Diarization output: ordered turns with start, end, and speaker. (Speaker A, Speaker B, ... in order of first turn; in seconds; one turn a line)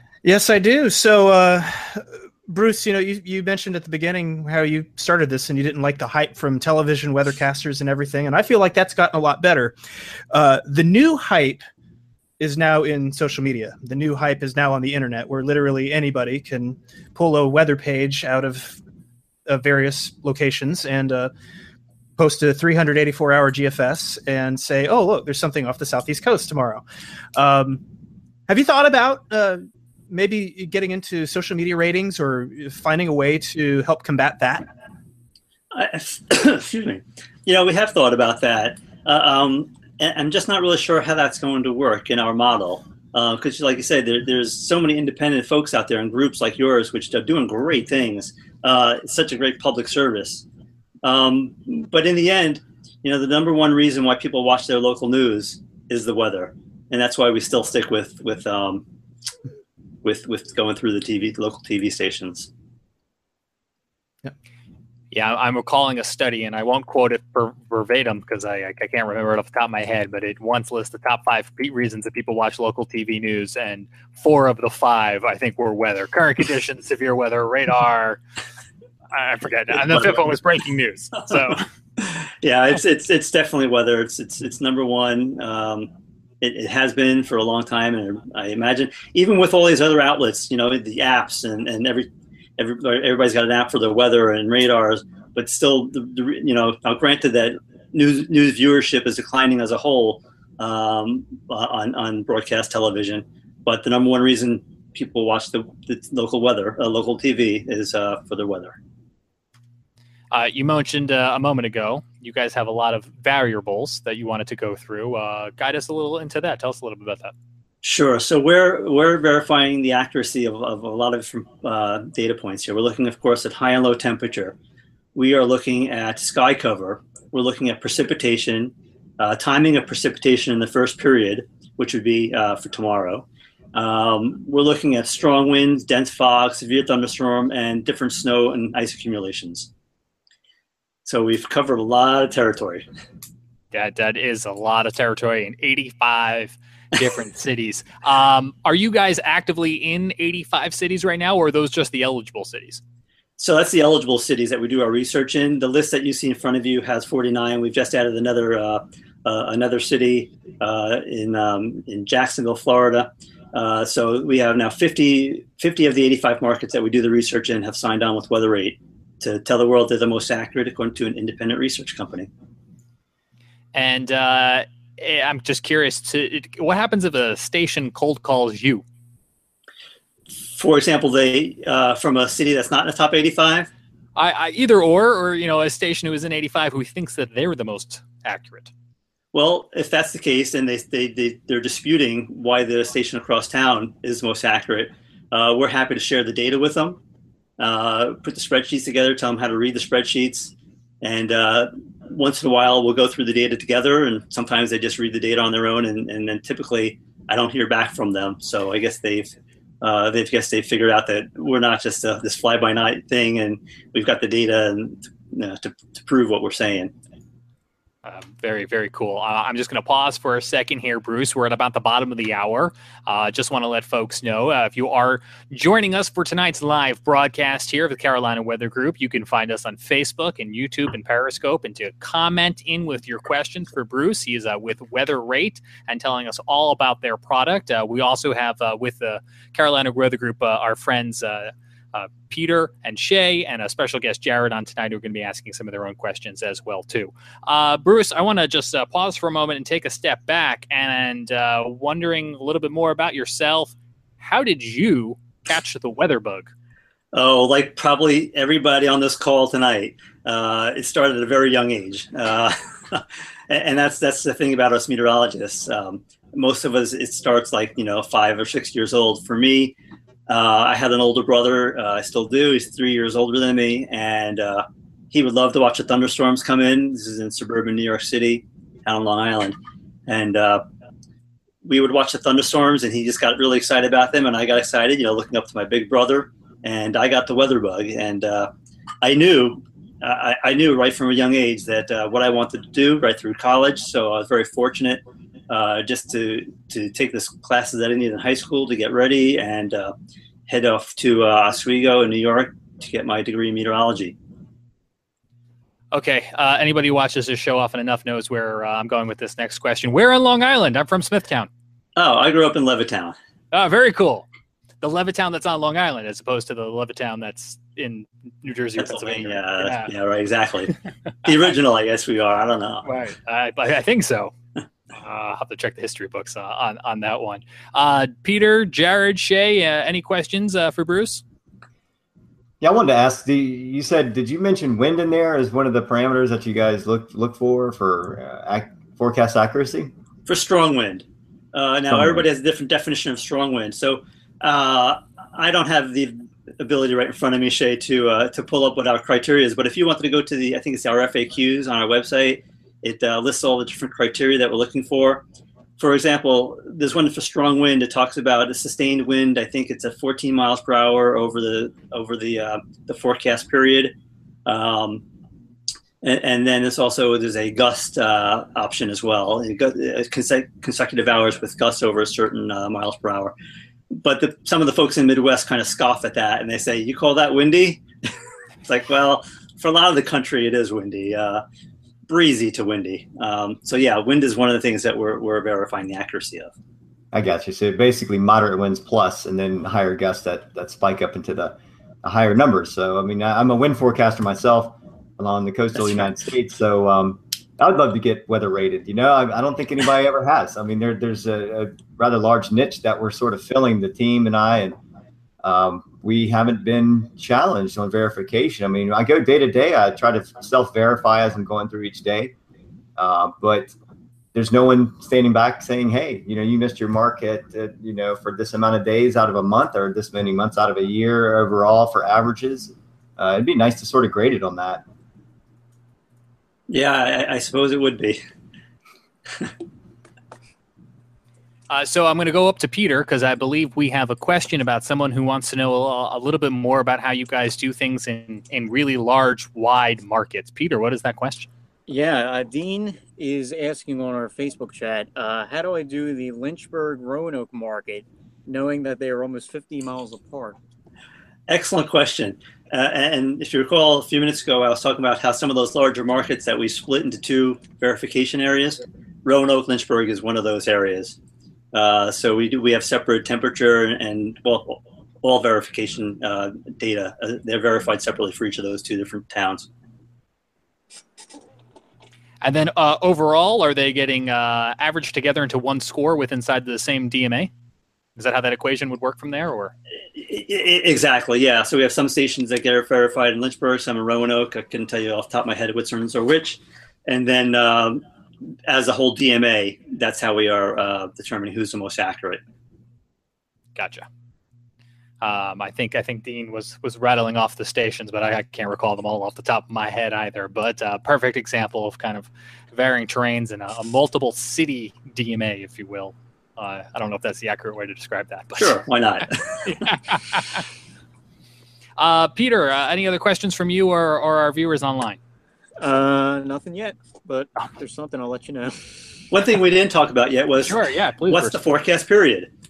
Speaker A: 0.2-9.7
Speaker A: 10.3-11.7
Speaker A: 12.4-18.8
Speaker A: 19.5-21.3
Speaker A: 22.2-26.8
Speaker A: 27.3-27.8
Speaker A: 28.5-34.7
Speaker B: 35.7-50.4
Speaker B: 51.0-58.8
Speaker B: 60.0-62.5
Speaker C: 65.1-78.2
Speaker C: 79.1-81.6
Speaker B: 79.7-80.3
Speaker B: 81.3-85.9
Speaker B: 86.4-108.8
Speaker C: 110.3-117.3
Speaker B: 117.8-124.5
Speaker B: 125.1-139.7
Speaker B: 141.0-142.8
Speaker C: 143.7-152.8
Speaker B: 153.4-172.3
Speaker C: 173.7-178.8
Speaker B: 180.5-183.7
Speaker C: 184.2-188.7
Speaker B: 189.3-197.0
Speaker B: 197.6-216.9
Speaker C: 218.0-256.5
Speaker B: 257.1-269.7
Speaker B: 270.3-279.6
Speaker B: 280.1-280.6
Speaker B: 281.6-288.5
Speaker B: 289.0-299.9
Speaker B: 300.5-304.1
Speaker C: 305.9-311.5
Speaker B: 311.9-313.1
Speaker C: 313.5-314.3
Speaker C: 314.8-319.9
Speaker B: 318.8-322.9
Speaker C: 322.8-324.3
Speaker C: 324.9-331.2
Speaker D: 332.6-339.9
Speaker B: 340.3-355.2
Speaker D: 341.9-342.2
Speaker B: 355.8-363.9
Speaker B: 364.4-365.0
Speaker B: 366.0-373.3
Speaker B: 373.9-377.8
Speaker B: 378.6-381.4
Speaker B: 382.1-386.5
Speaker D: 387.1-404.8
Speaker D: 405.4-412.3
Speaker D: 413.0-413.7
Speaker D: 414.3-424.8
Speaker B: 426.7-428.2
Speaker C: 431.7-441.5
Speaker E: 441.9-450.6
Speaker B: 451.5-461.1
Speaker B: 461.7-469.7
Speaker C: 472.4-477.5
Speaker C: 478.1-479.7
Speaker B: 480.1-488.0
Speaker B: 488.6-492.4
Speaker C: 493.8-494.1
Speaker C: 495.2-508.8
Speaker B: 508.6-509.9
Speaker C: 509.6-510.6
Speaker C: 512.0-515.2
Speaker E: 515.8-518.8
Speaker B: 519.3-522.5
Speaker C: 520.6-521.6